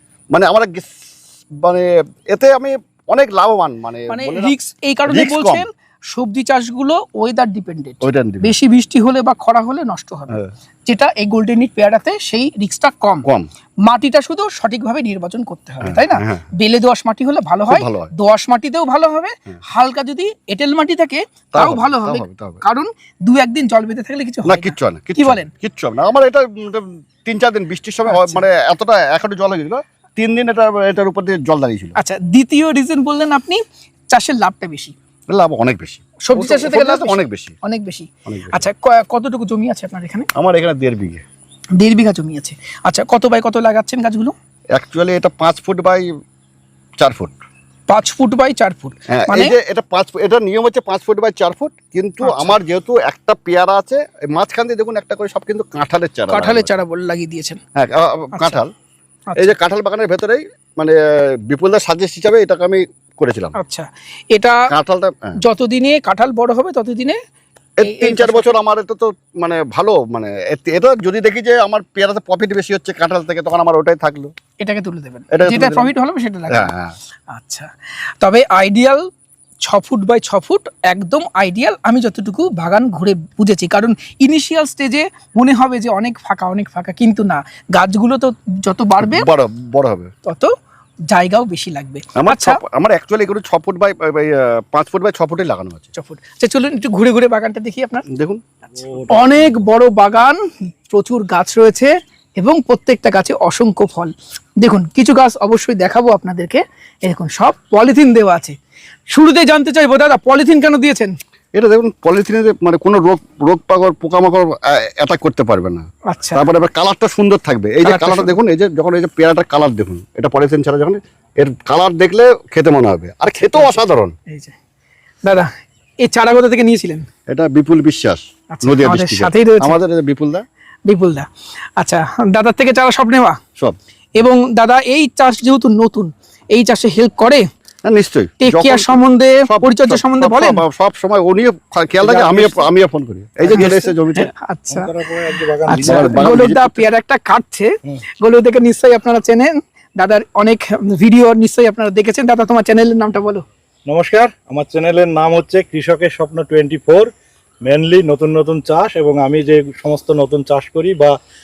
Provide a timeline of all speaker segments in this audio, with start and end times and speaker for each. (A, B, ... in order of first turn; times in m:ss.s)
0:00.3-0:04.5 A
0:04.1-0:13.2 B
0:05.1-0:05.6 A
0:08.0-0:08.5 A
0:13.8-0:25.5 B
0:15.8-0:16.4 A
0:17.7-0:18.1 A
0:21.5-0:22.6 A
0:24.4-0:31.9 A
0:28.1-0:28.4 B
0:32.0-0:34.9 B
0:35.3-0:37.6 A
0:36.2-0:40.3 B
0:38.3-0:38.6 A
0:40.3-0:41.2 A
0:41.8-0:44.3 B
0:44.8-0:46.1 A
0:47.0-0:47.4 A
0:47.9-0:49.5 B
0:49.2-0:56.7 A
0:52.2-0:52.6 B
0:56.3-0:57.6 B
0:57.8-0:58.7 A
0:59.3-0:59.5 B
0:59.4-1:03.6 A
1:03.6-1:04.6 B
1:04.7-1:05.4 A
1:05.4-1:07.2 B
1:07.8-1:14.3 A
1:07.8-1:08.5 B
1:14.6-1:16.7 B
1:15.3-1:15.9 A
1:16.5-1:16.9 A
1:17.3-1:17.7 B
1:18.2-1:19.1 B
1:19.6-1:29.3 B
1:29.0-1:30.1 A
1:30.2-1:30.5 B
1:31.1-1:32.6 B
1:32.2-1:35.9 A
1:35.9-1:38.0 B
1:38.1-1:38.4 A
1:38.7-1:39.6 C
1:39.1-1:48.6 B
1:49.1-1:51.1 B
1:51.5-2:04.2 A
1:56.1-1:56.4 B
1:57.8-1:58.3 B
2:03.4-2:04.5 B
2:06.0-2:07.1 B
2:07.3-2:10.4 A
2:08.5-2:09.8 B
2:10.9-2:11.3 B
2:11.8-2:13.4 B
2:14.2-2:17.5 B
2:17.8-2:24.3 A
2:18.4-2:20.6 B
2:22.0-2:22.7 C
2:23.4-2:24.9 B
2:24.7-2:26.3 C
2:25.7-2:33.4 B
2:25.8-2:26.8 A
2:33.8-2:37.1 C
2:37.6-2:41.2 C